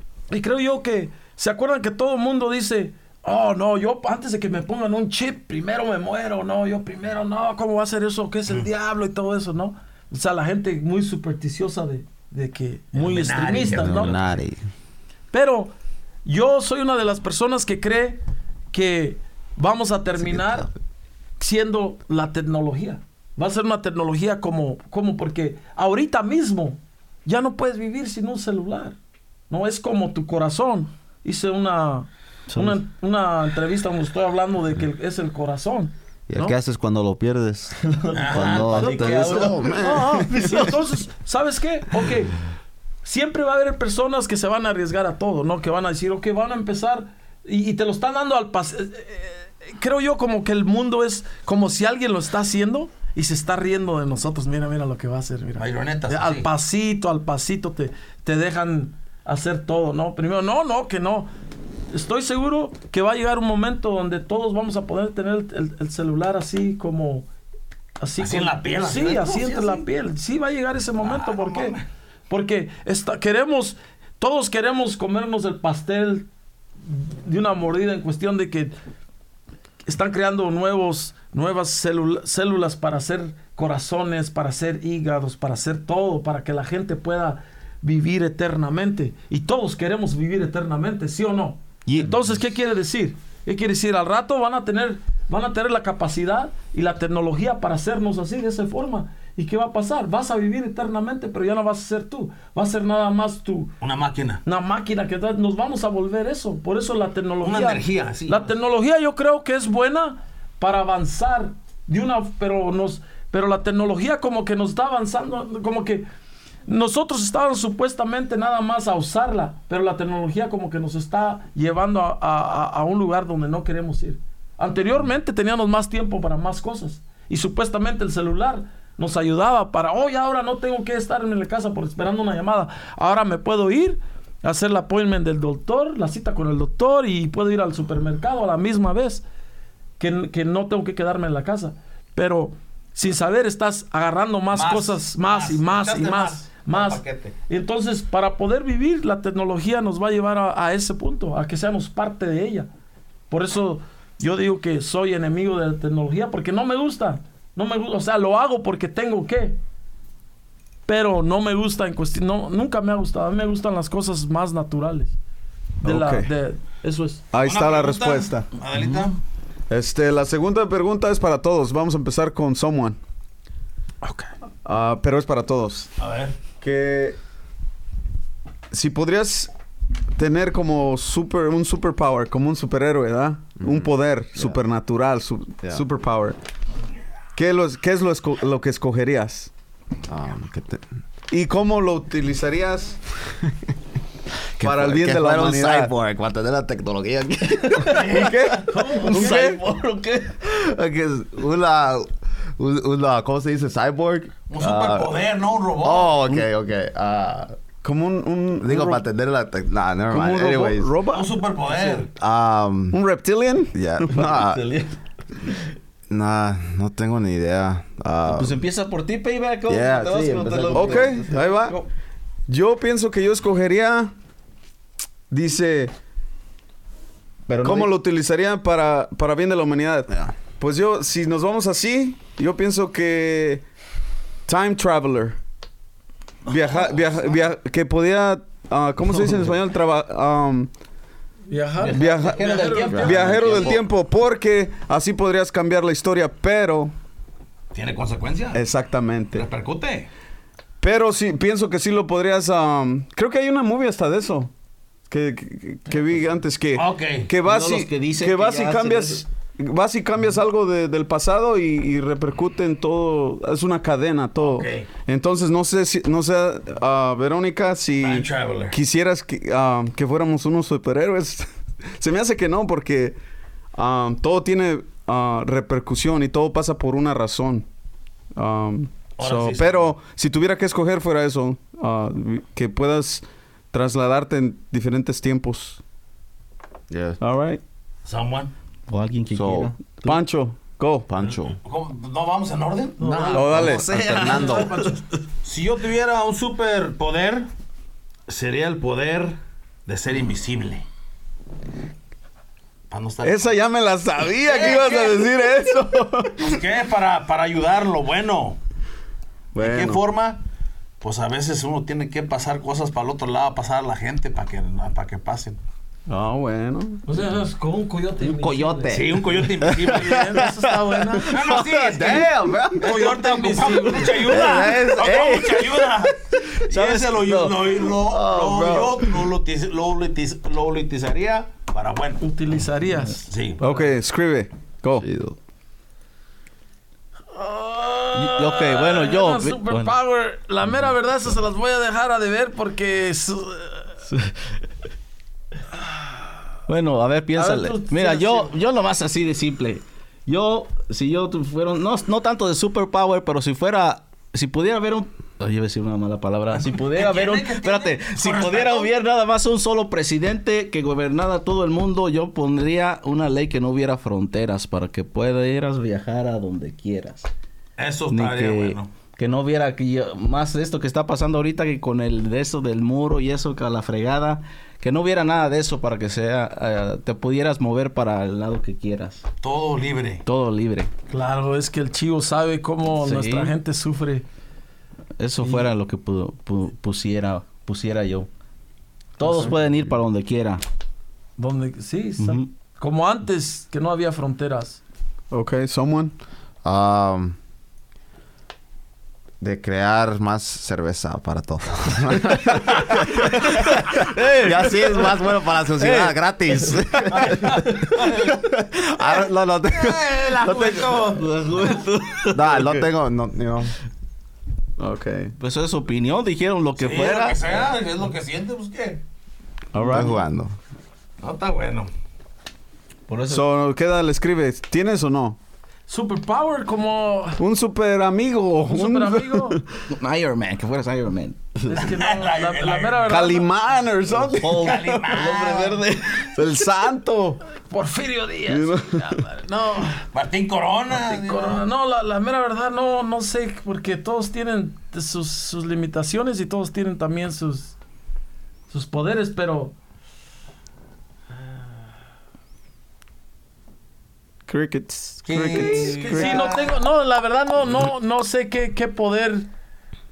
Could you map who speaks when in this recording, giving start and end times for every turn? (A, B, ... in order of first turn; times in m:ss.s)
0:00.3-0:14.3 A
0:12.9-0:14.2 B
0:13.7-0:14.6 C
0:15.3-0:15.7 A
0:16.2-0:18.2 A
0:18.7-0:20.7 A
0:20.2-0:20.7 C
0:21.4-0:29.0 A
0:29.5-0:36.5 A
0:32.5-0:32.8 D
0:36.3-0:40.6 C
0:37.9-0:40.8 D
0:38.1-0:39.1 B
0:38.7-0:42.4 A
0:43.0-1:01.3 A
0:55.6-0:56.5 B
1:01.9-1:07.3 A
1:08.0-1:11.8 A
1:08.2-1:09.8 B
1:11.0-1:11.8 B
1:12.3-1:16.3 A
1:16.8-1:18.7 A
1:19.8-1:43.7 A
1:31.8-1:32.1 C
1:43.8-1:44.4 B
1:44.4-1:56.0 A
1:47.4-1:48.4 B
1:56.7-2:19.2 A
2:20.0-2:32.7 A
2:24.5-2:27.3 B
2:33.3-2:39.6 A
2:40.9-2:45.2 A
2:45.8-2:46.3 E
2:45.8-2:47.2 A
2:47.3-2:48.5 E
2:47.4-2:49.2 B
2:48.8-2:49.1 D
2:49.7-2:53.0 E
2:54.6-2:55.9 E
2:56.0-2:56.3 B
2:56.6-2:57.2 E
2:58.7-2:59.5 E
3:00.2-3:06.4 E
3:03.6-3:04.6 C
3:07.3-3:09.5 E
3:10.1-3:10.8 C
3:11.3-3:13.0 E
3:14.6-3:18.3 C
3:14.6-3:15.9 E
3:17.9-3:19.6 E
3:18.0-3:18.5 B
3:18.7-3:20.4 D
3:18.7-3:19.1 A
3:20.4-3:25.2 C
3:24.5-3:26.1 B
3:25.8-3:27.6 C
3:27.8-3:29.0 E
3:28.6-3:30.9 C
3:30.1-3:31.3 E
3:31.1-3:32.1 B
3:31.9-3:33.0 C
3:32.9-3:34.0 E
3:33.7-3:34.7 C
3:34.2-3:34.9 D
3:36.1-3:38.6 C
3:38.2-3:41.8 D
3:39.6-3:41.4 C
3:40.7-3:41.7 E
3:42.5-3:44.1 E
3:45.3-3:45.9 E
3:47.5-3:47.9 C
3:47.6-3:53.6 E
3:54.5-3:55.4 E
3:56.5-4:00.7 E
4:01.5-4:03.0 A
4:01.8-4:03.8 B
4:01.9-4:03.8 D
4:01.9-4:06.9 E
4:02.9-4:03.2 C
4:07.7-4:08.6 B
4:08.5-4:09.5 E
4:09.3-4:10.1 B
4:10.8-4:14.5 E
4:15.1-4:33.2 E
4:16.7-4:17.3 B
4:17.4-4:19.2 D
4:24.4-4:24.8 B
4:28.0-4:28.8 B
4:33.7-4:37.6 E
4:38.4-4:45.8 E
4:39.2-4:39.9 B
4:46.9-4:47.2 C
4:47.2-4:47.6 E
4:48.0-4:48.5 B
4:48.9-4:50.2 D
4:49.3-4:49.7 C
4:50.0-4:51.1 E
4:51.1-4:51.6 C
4:51.2-4:54.5 B
4:53.0-4:53.6 A
4:53.3-4:53.9 E
4:53.4-4:55.0 D
4:53.7-4:54.8 C
4:54.2-4:55.0 A
4:55.4-4:57.5 B
4:58.3-5:00.8 B
5:02.9-5:03.5 B
5:03.2-5:06.6 E
5:04.4-5:05.2 B
5:06.4-5:08.6 B
5:09.5-5:10.0 E
5:09.6-5:10.4 B
5:11.0-5:15.6 B
5:16.1-5:17.0 E
5:17.0-5:19.0 A
5:18.2-5:20.4 C
5:18.9-5:20.3 B
5:19.8-5:21.3 A
5:21.3-5:26.1 B
5:21.4-5:23.1 C
5:22.8-5:24.2 A
5:24.1-5:26.6 C
5:26.7-5:32.2 B
5:27.2-5:27.5 D
5:28.1-5:29.0 C
5:32.2-5:33.3 A
5:33.3-5:33.6 B
5:33.6-5:35.1 E
5:34.9-5:35.4 C
5:37.3-5:44.0 A
5:38.1-5:40.0 D
5:44.1-5:44.6 D
5:46.7-6:07.3 D
5:47.3-5:48.5 A
5:56.5-5:58.9 B
6:07.8-6:08.9 B
6:08.1-6:19.2 D
6:19.4-6:20.2 B
6:20.2-6:20.9 D
6:21.1-6:24.2 A
6:23.0-6:23.5 D
6:25.2-6:28.3 D
6:25.4-6:25.7 A
6:29.2-6:30.6 D
6:29.2-6:29.5 A
6:31.4-6:34.8 A
6:32.2-6:32.5 D
6:35.3-6:36.1 E
6:36.6-6:37.4 C
6:39.4-6:51.1 C
6:43.6-6:45.2 D
6:45.8-6:48.0 D
6:48.0-6:48.3 B
6:49.6-6:51.8 B
6:51.1-6:52.9 D
6:52.3-6:53.7 C
6:54.8-6:55.3 E
6:55.4-6:57.7 D
6:56.8-6:59.0 B
6:59.7-7:00.1 E
6:59.8-7:00.1 D
6:59.8-7:00.5 C
7:01.2-7:01.9 B
7:03.1-7:03.4 D
7:03.3-7:05.4 E
7:05.9-7:07.4 A
7:07.4-7:09.7 E
7:08.6-7:09.6 A
7:09.9-7:11.7 D
7:11.7-7:13.5 A
7:11.7-7:13.1 B
7:13.1-7:15.2 E
7:14.2-7:16.4 D
7:14.5-7:15.8 B
7:16.3-7:17.4 E
7:17.7-7:20.0 A
7:18.5-7:19.2 E
7:20.1-7:21.6 B
7:20.9-7:27.8 A
7:28.7-7:29.7 A
7:34.5-7:36.4 E
7:35.2-7:36.7 B
7:35.6-7:39.5 A